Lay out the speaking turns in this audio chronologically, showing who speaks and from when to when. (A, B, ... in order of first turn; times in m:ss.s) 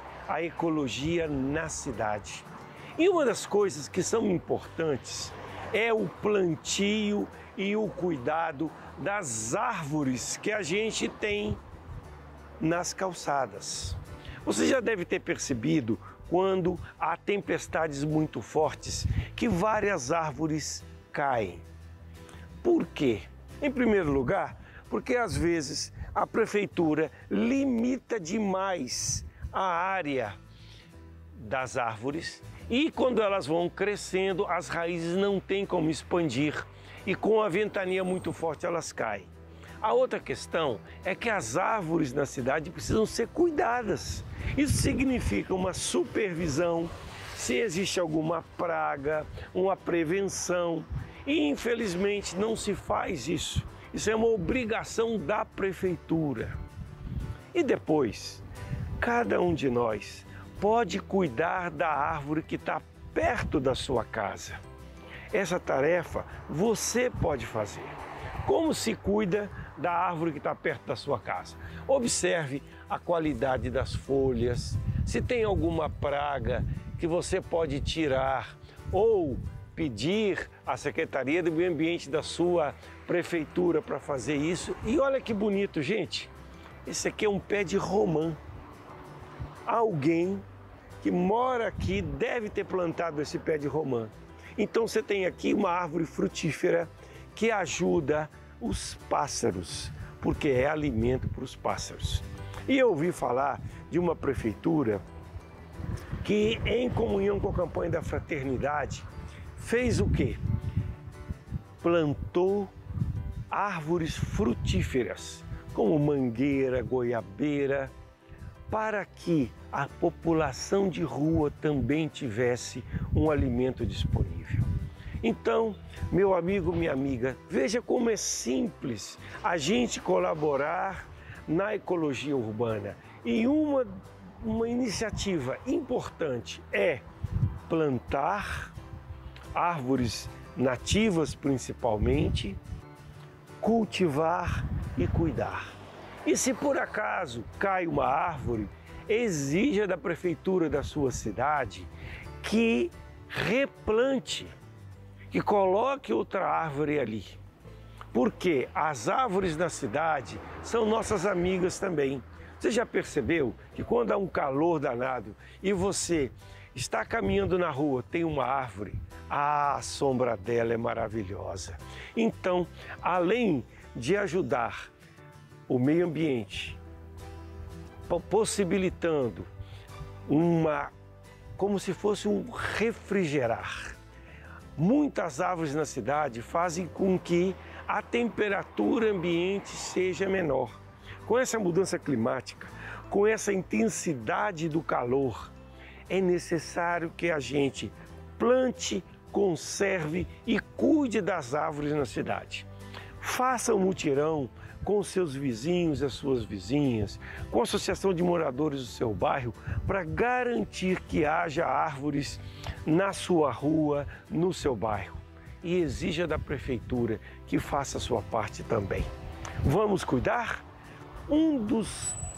0:00.3-0:02.5 A
0:03.0-0:11.6 A
0:12.6-0:21.6 A
0:22.6-0:30.4 A
0:31.4-0:39.3 A
0:39.8-0:56.6 A
0:57.5-0:58.4 A
0:59.0-1:04.6 A
1:05.3-1:26.3 A
1:26.9-1:28.4 A
1:29.7-1:30.4 A
1:31.0-1:45.0 A
1:46.2-1:50.4 A
1:51.8-1:52.7 A
1:53.5-1:57.9 A
1:58.7-2:04.7 A
2:05.2-2:17.0 A
2:17.7-2:18.7 A
2:19.5-2:22.6 A
2:23.6-2:25.7 A
2:26.2-2:34.5 A
2:35.3-2:37.4 A
2:38.1-2:54.9 A
2:55.7-2:56.8 A
2:58.1-2:59.5 A
3:00.3-3:00.9 A
3:01.6-3:04.0 A
3:04.8-3:15.5 A
3:16.1-3:22.7 A
3:23.2-3:39.1 A
3:39.6-3:40.6 A
3:41.3-3:42.2 A